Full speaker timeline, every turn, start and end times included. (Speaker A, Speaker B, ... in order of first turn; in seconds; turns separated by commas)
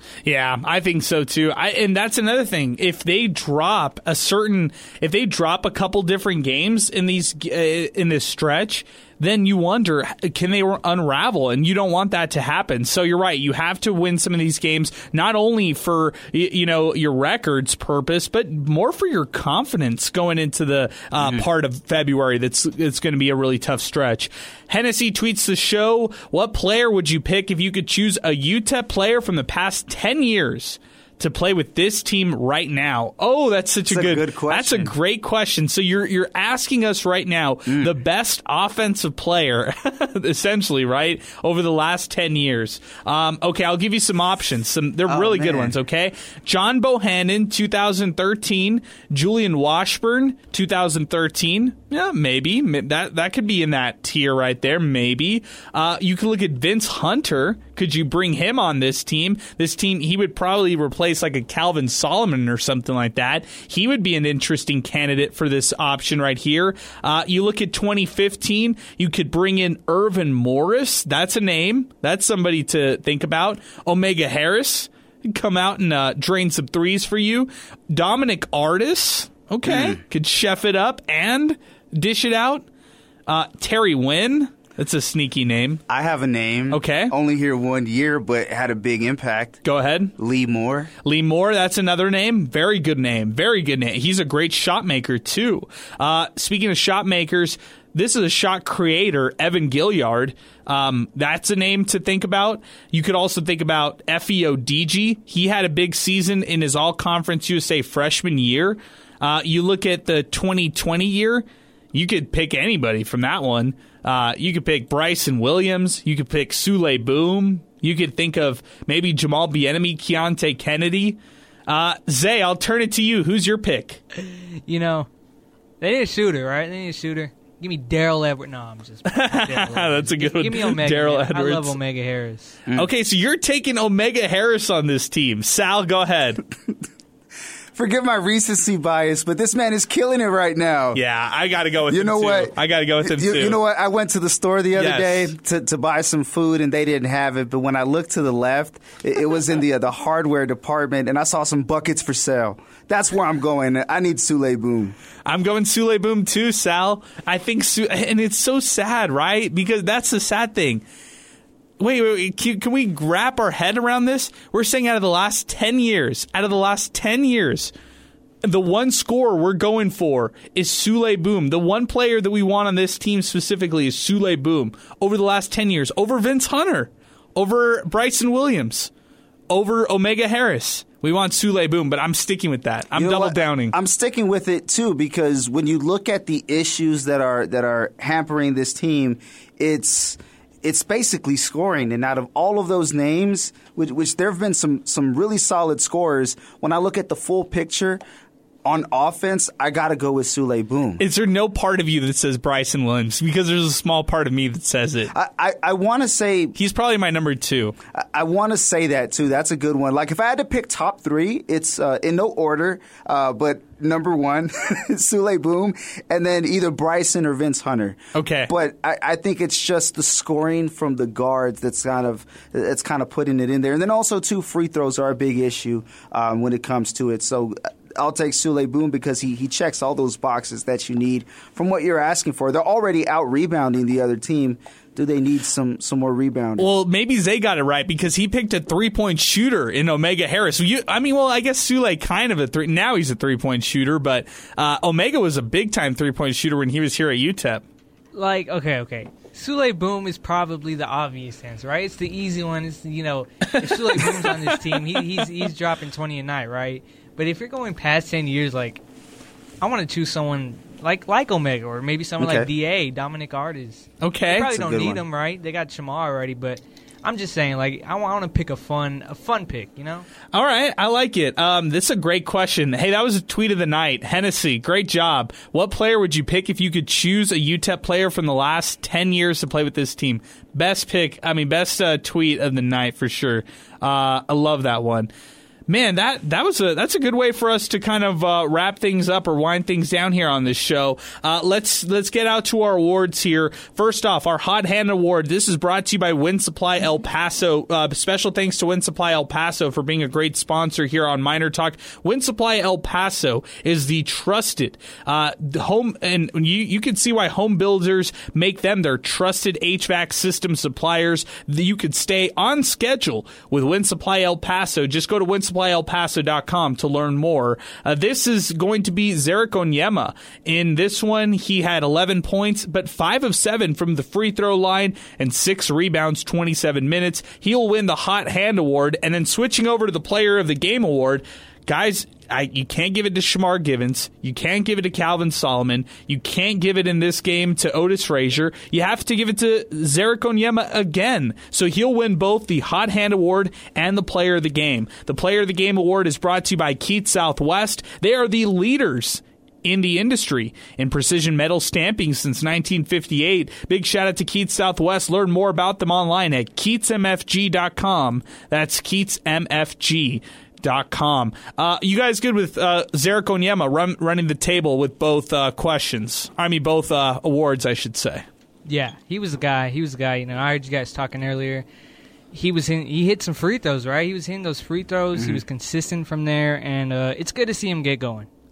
Speaker A: 0.2-82.7, Speaker B: 21.2-21.4, Speaker B: 33.9-34.9, Speaker B: 37.6-37.9, Speaker B: 45.0-45.8, Speaker B: 79.6-80.0, Speaker A: 83.3-85.8, Speaker B: 85.9-89.6, Speaker A: 86.7-87.1, Speaker A: 89.6-90.1, Speaker B: 90.2-90.9, Speaker A: 91.0-124.0, Speaker C: 124.2-125.1, Speaker C: 125.8-132.6, Speaker A: 129.1-131.7, Speaker A: 132.7-136.4, Speaker B: 137.7-141.0, Speaker A: 140.9-143.6, Speaker B: 141.9-154.9, Speaker A: 144.8-145.3, Speaker A: 155.2-160.8, Speaker A: 161.8-167.7, Speaker A: 168.4-178.9, Speaker A: 179.5-183.7, Speaker B: 182.9-198.0, Speaker B: 198.6-201.0, Speaker A: 201.0-205.1, Speaker B: 205.1-206.6, Speaker A: 206.6-207.8, Speaker B: 207.9-236.7, Speaker A: 218.1-218.5, Speaker A: 236.6-247.6, Speaker C: 248.1-258.8, Speaker A: 253.5-255.0, Speaker C: 259.6-270.1, Speaker B: 262.2-262.5, Speaker A: 264.0-264.5, Speaker B: 264.5-265.0, Speaker A: 270.3-285.1, Speaker A: 285.7-368.2, Speaker C: 368.6-371.6, Speaker C: 372.3-378.3, Speaker B: 375.1-375.4